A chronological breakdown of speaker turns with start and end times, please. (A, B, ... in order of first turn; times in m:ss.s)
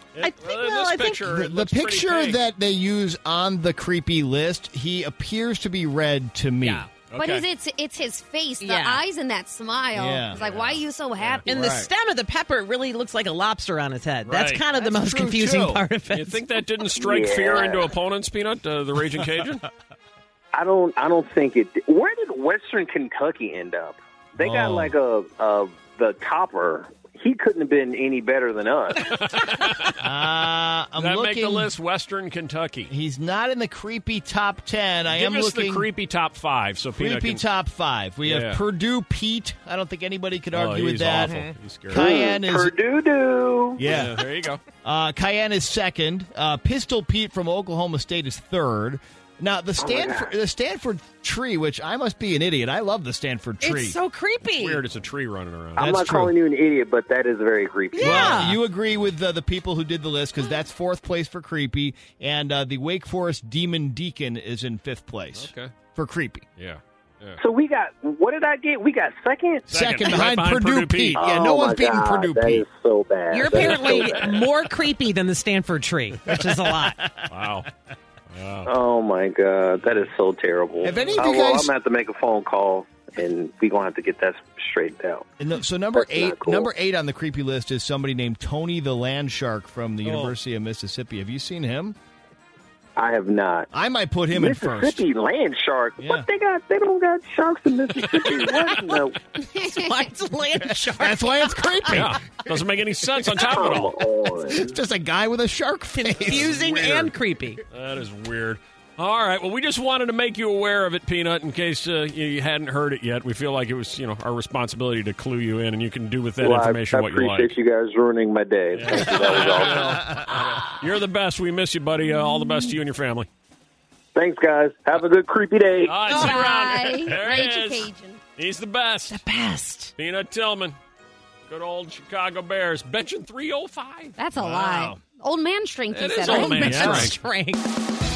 0:00.2-0:02.4 A
0:00.2-0:01.2 B
0:01.2-0:06.9 C
0:07.1-0:07.4 A
0:07.1-0:11.4 D
0:08.6-0:09.0 B
0:10.0-0:10.4 C
0:10.4-0:11.4 A
0:11.5-0:16.5 B
0:11.5-0:11.9 C
0:14.2-0:14.7 A
0:14.7-0:15.8 C
0:16.1-0:19.7 A
0:16.9-0:17.9 E
0:20.5-0:29.2 E
0:24.4-0:24.9 C
0:29.1-0:30.0 A
0:30.0-0:31.7 C
0:31.0-0:32.9 A
0:32.9-0:35.9 C
0:35.1-0:37.4 A
0:37.0-0:41.3 C
0:38.2-0:38.6 A
0:40.5-0:42.0 A
0:41.2-0:41.5 B
0:41.9-0:43.8 E
0:41.9-0:42.7 C
0:43.8-0:44.2 C
0:43.9-0:44.6 A
0:44.8-0:54.0 C
0:49.8-0:50.4 E
0:53.6-0:54.8 B
0:54.4-0:55.9 A
0:55.8-0:58.5 E
0:55.8-0:56.3 C
0:58.0-0:58.6 B
0:58.0-1:06.5 C
1:05.4-1:05.7 A
1:06.6-1:07.4 A
1:07.4-1:09.7 E
1:09.7-1:12.6 C
1:09.7-1:11.2 A
1:11.2-1:14.4 E
1:13.3-1:17.1 B
1:13.4-1:14.5 A
1:17.3-1:17.7 A
1:18.3-1:18.7 A
1:18.6-1:25.3 E
1:20.8-1:21.7 C
1:25.4-1:32.0 C
1:25.9-1:26.7 E
1:30.0-1:30.3 B
1:33.0-1:33.7 E
1:33.7-1:35.0 C
1:34.3-1:39.2 E
1:36.0-1:36.2 C
1:39.4-1:40.2 D
1:39.7-1:41.9 B
1:40.8-1:42.3 C
1:41.9-1:44.0 A
1:43.4-1:44.8 E
1:44.5-1:46.6 C
1:45.9-1:47.6 B
1:46.2-1:47.2 A
1:47.7-1:57.5 A
1:56.4-2:00.3 E
1:58.7-2:03.3 A
2:04.2-2:06.1 E
2:05.8-2:09.2 A
2:06.1-2:08.2 D
2:06.1-2:06.4 B
2:09.1-2:09.9 B
2:10.0-2:10.8 A
2:11.5-2:14.2 A
2:14.2-2:17.1 D
2:14.4-2:15.0 C
2:15.9-2:17.2 A
2:16.2-2:17.6 B
2:16.4-2:17.2 C